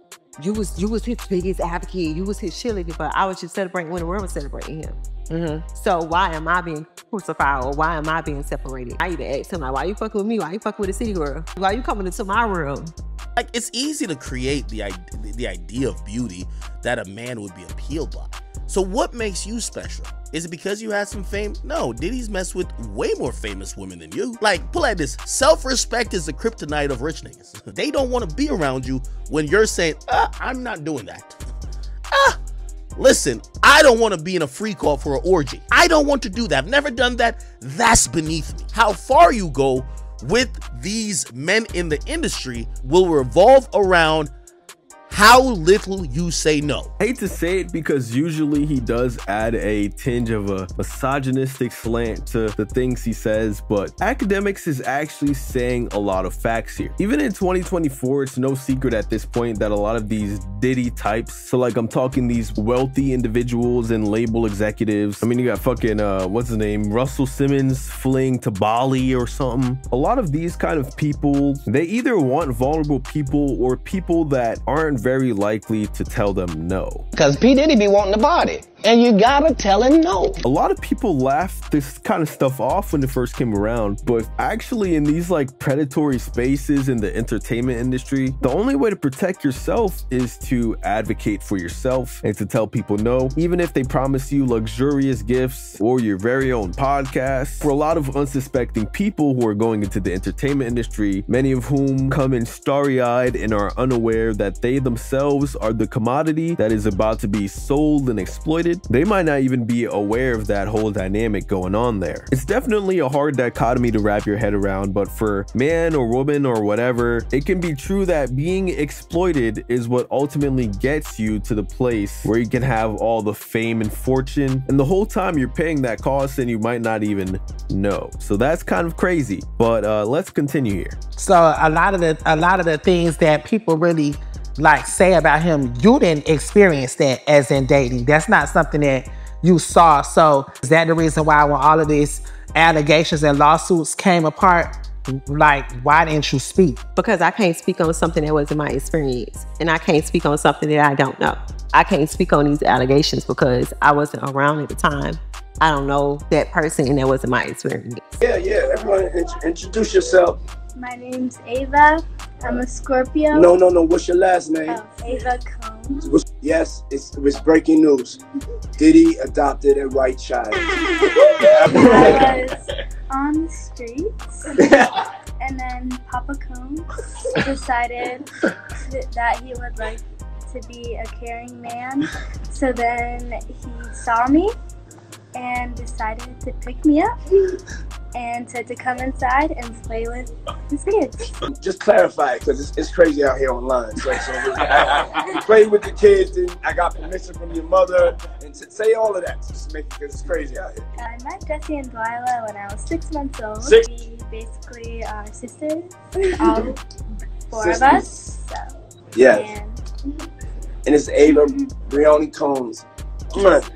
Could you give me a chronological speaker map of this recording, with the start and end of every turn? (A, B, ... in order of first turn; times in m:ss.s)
0:00.4-0:05.0 A
0:05.3-0:05.6 B
0:05.7-0:12.9 A
0:13.4-0:31.4 C
0:32.1-0:32.4 C
0:33.0-0:44.3 C
0:45.1-0:46.9 C
0:47.0-1:17.0 D
1:17.1-1:20.4 E
1:20.4-2:11.0 D
2:11.2-2:24.7 B
2:25.3-2:26.8 B
2:27.0-2:38.2 A
2:38.2-2:40.4 F
2:40.8-2:43.6 G
2:43.3-2:44.8 F
2:44.7-2:46.1 G
2:46.1-2:48.2 F
2:48.8-2:50.8 F
2:51.4-2:52.3 F
2:51.4-2:54.5 G
2:55.4-2:58.3 G
2:58.8-3:04.5 G
3:05.3-3:07.1 G
3:08.1-3:11.4 G
3:11.5-3:20.7 F
3:21.0-3:26.8 G
3:27.5-3:28.7 G
3:27.6-3:28.2 F
3:29.2-3:29.5 F
3:29.3-3:29.8 G
3:30.8-3:33.6 F
3:31.2-3:31.7 G